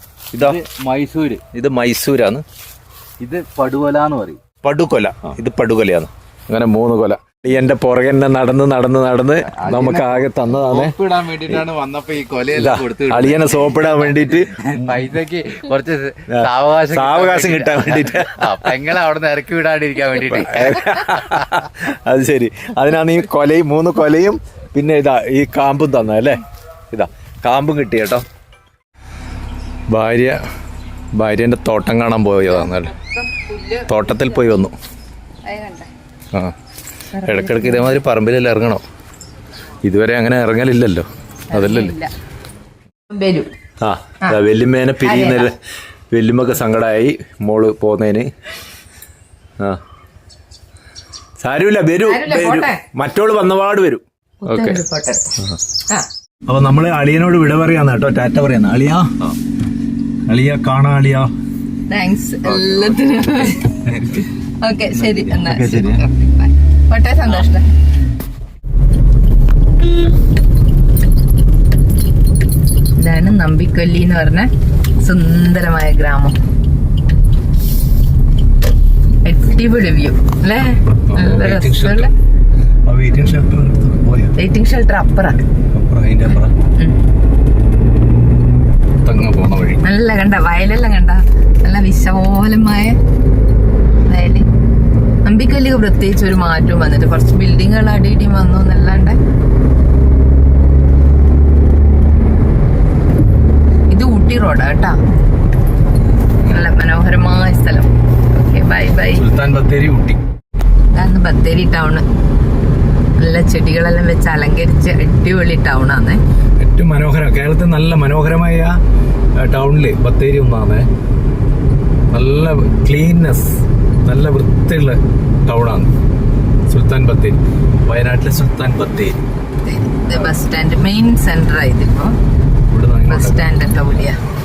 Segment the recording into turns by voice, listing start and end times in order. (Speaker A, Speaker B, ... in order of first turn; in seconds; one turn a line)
Speaker A: 0.3-0.6
Speaker B: 0.3-1.4
Speaker A: 1.5-2.4
Speaker B: 3.2-4.4
Speaker A: 4.6-10.9
Speaker B: 9.5-20.9
Speaker A: 12.5-14.6
Speaker A: 16.3-18.7
Speaker A: 20.3-28.2
Speaker A: 29.9-30.4
Speaker A: 31.2-32.9
Speaker C: 32.5-34.5
Speaker A: 33.9-34.7
Speaker C: 35.4-35.9
Speaker C: 37.1-37.9
Speaker A: 37.2-38.8
Speaker A: 39.8-41.9
Speaker C: 41.5-42.1
Speaker C: 43.1-43.5
Speaker A: 43.8-45.6
Speaker C: 45.0-45.5
Speaker A: 46.1-48.3
Speaker A: 51.4-54.8
Speaker C: 52.0-52.8
Speaker C: 54.4-55.4
Speaker A: 56.5-59.3
Speaker A: 60.3-61.3
Speaker C: 61.9-63.8
Speaker C: 64.6-67.7
Speaker A: 65.4-66.0
Speaker C: 73.0-74.5
Speaker C: 75.0-76.3
Speaker C: 79.2-82.1
Speaker A: 81.1-82.1
Speaker A: 82.8-84.3
Speaker C: 84.3-85.4
Speaker A: 85.7-86.5
Speaker A: 89.0-89.8
Speaker C: 89.8-93.0
Speaker C: 94.1-94.5
Speaker C: 95.2-99.2
Speaker C: 103.9-105.0
Speaker C: 106.5-109.2
Speaker A: 109.2-110.2
Speaker C: 110.9-112.0
Speaker C: 113.2-116.2
Speaker A: 116.6-118.8
Speaker A: 119.4-120.8
Speaker A: 122.1-125.9
Speaker A: 126.7-129.2
Speaker C: 129.6-132.1
Speaker A: 132.7-133.5
Speaker C: 133.1-134.2